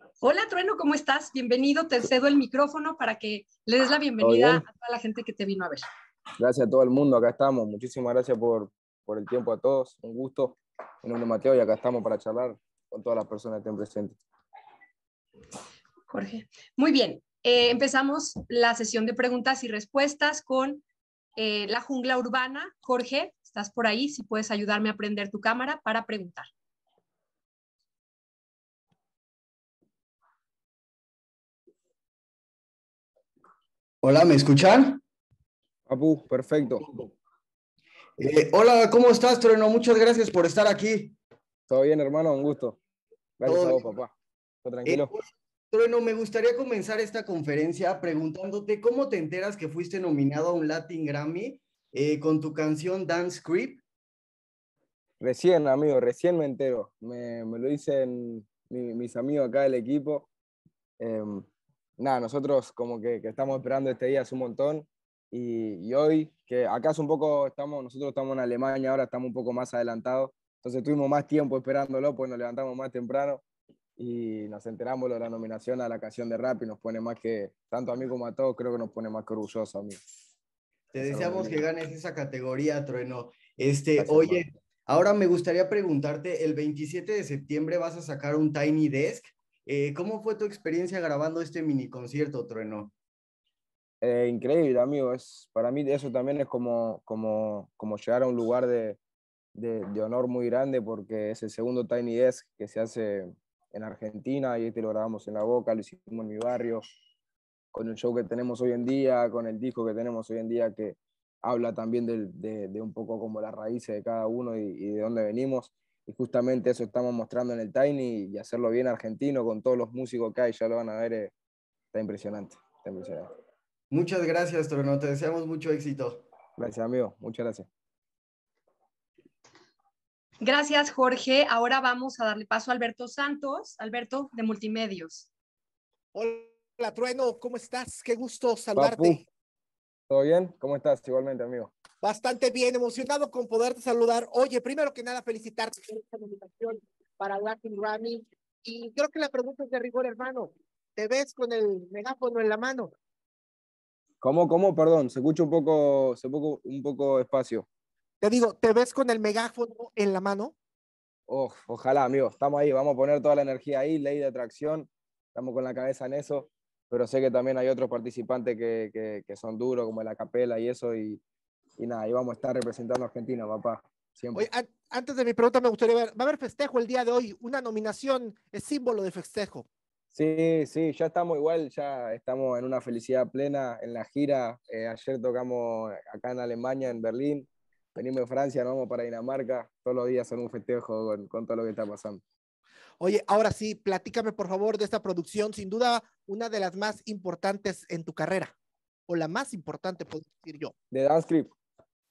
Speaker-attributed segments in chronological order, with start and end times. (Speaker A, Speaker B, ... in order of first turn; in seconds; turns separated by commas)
Speaker A: 0.2-5.9, Speaker B: 4.2-4.6, Speaker B: 6.4-14.2, Speaker A: 16.1-20.8, Speaker A: 21.4-26.5, Speaker C: 34.0-35.0, Speaker B: 35.9-36.8, Speaker C: 38.2-41.1, Speaker B: 41.7-42.8, Speaker B: 43.4-44.1, Speaker C: 43.5-43.9, Speaker B: 44.6-45.1, Speaker C: 44.9-53.8, Speaker B: 55.2-60.3, Speaker B: 61.0-61.5, Speaker B: 62.0-73.4, Speaker B: 74.0-80.0, Speaker C: 80.9-92.9, Speaker B: 81.0-81.7, Speaker B: 84.0-84.5, Speaker B: 94.0-99.0, Speaker B: 99.5-106.8, Speaker B: 107.7-121.3, Speaker B: 121.9-123.3, Speaker C: 123.9-126.2, Speaker B: 126.6-127.7, Speaker A: 130.4-135.3, Speaker D: 136.1-139.2, Speaker B: 138.7-139.2, Speaker B: 140.1-141.7, Speaker D: 142.0-152.9, Speaker B: 154.2-157.7, Speaker D: 158.2-160.5, Speaker B: 161.3-171.2, Speaker B: 171.8-174.5, Speaker D: 174.3-179.6, Speaker B: 180.1-192.2, Speaker D: 193.0-198.5, Speaker D: 199.1-200.7, Speaker B: 200.9-201.5